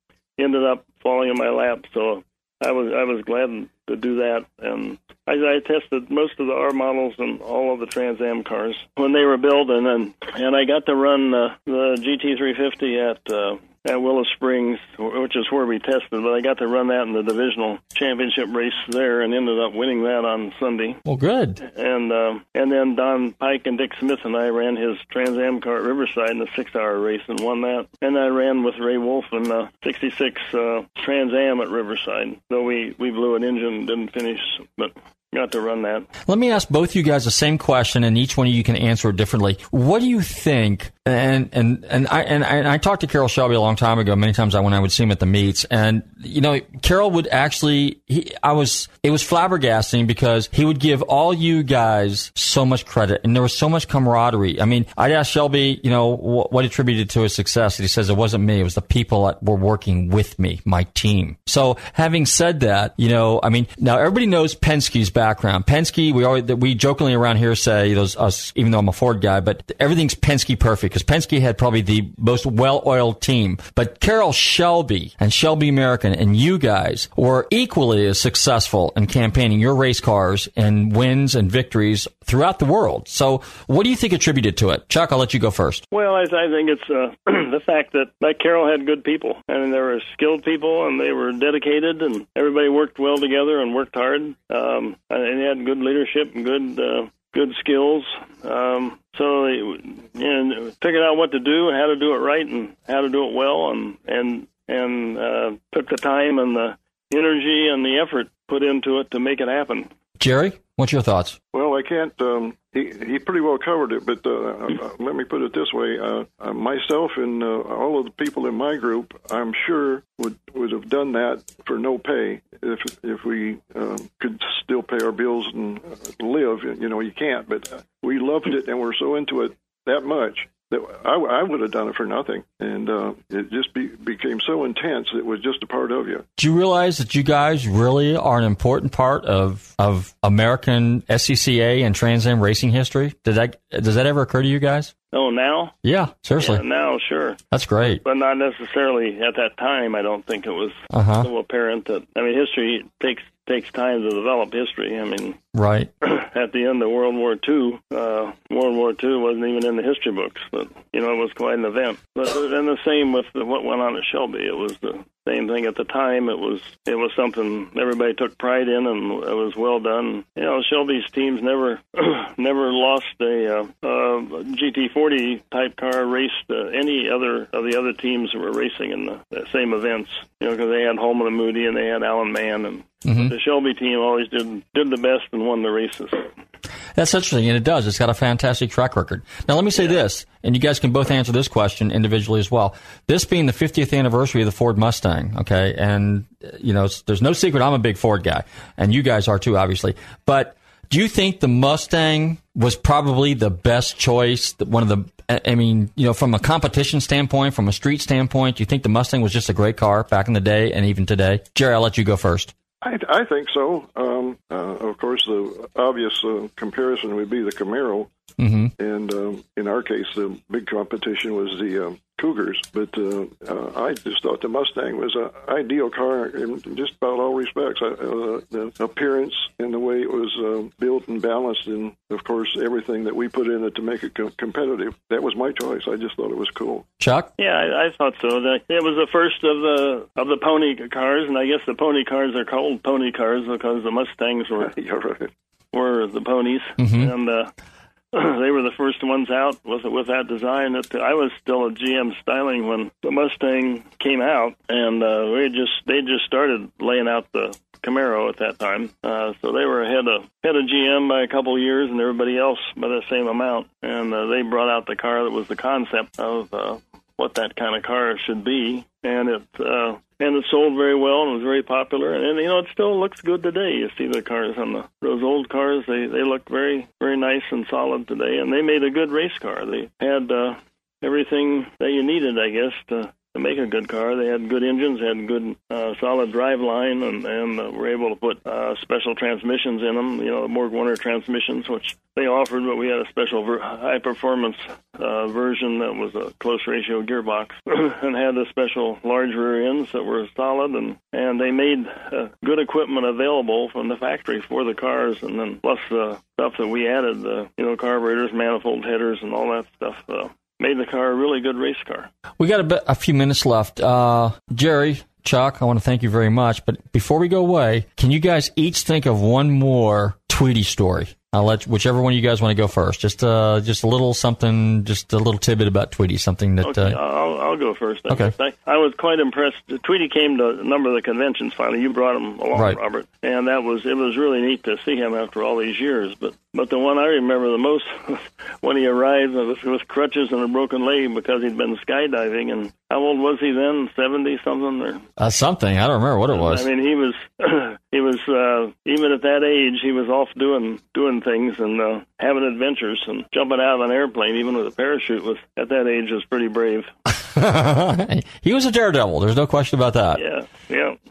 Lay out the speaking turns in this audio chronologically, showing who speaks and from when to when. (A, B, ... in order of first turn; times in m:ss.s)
0:00.4-0:21.0 A
0:21.1-0:21.6 B
0:21.6-0:36.1 A
0:36.3-1:25.8 B
1:25.9-1:49.9 A
1:50.2-1:51.4 B
1:51.5-2:16.3 C
2:16.4-2:24.9 B
2:25.1-2:25.8 A
2:25.8-2:26.6 B
2:26.4-2:27.4 A
2:27.5-2:28.0 B
2:28.0-2:35.4 A
2:30.9-2:31.3 B
2:35.5-2:35.9 B
2:36.0-3:06.3 A
3:03.0-3:03.3 B
3:07.0-3:32.5 B
3:32.8-3:38.1 C
3:38.4-3:38.7 B
3:38.8-3:56.9 C
3:57.0-3:57.3 B
3:57.4-4:04.7 A
4:04.6-4:05.3 C
4:05.7-4:07.5 A
4:06.8-4:07.1 B
4:08.1-5:12.1 A
5:12.4-5:27.0 B
5:26.6-5:45.0 A
5:28.1-5:28.3 B
5:32.5-5:32.8 B
5:45.2-5:46.7 B
5:46.3-5:56.9 A
5:57.2-6:00.2 B
6:00.2-6:01.0 A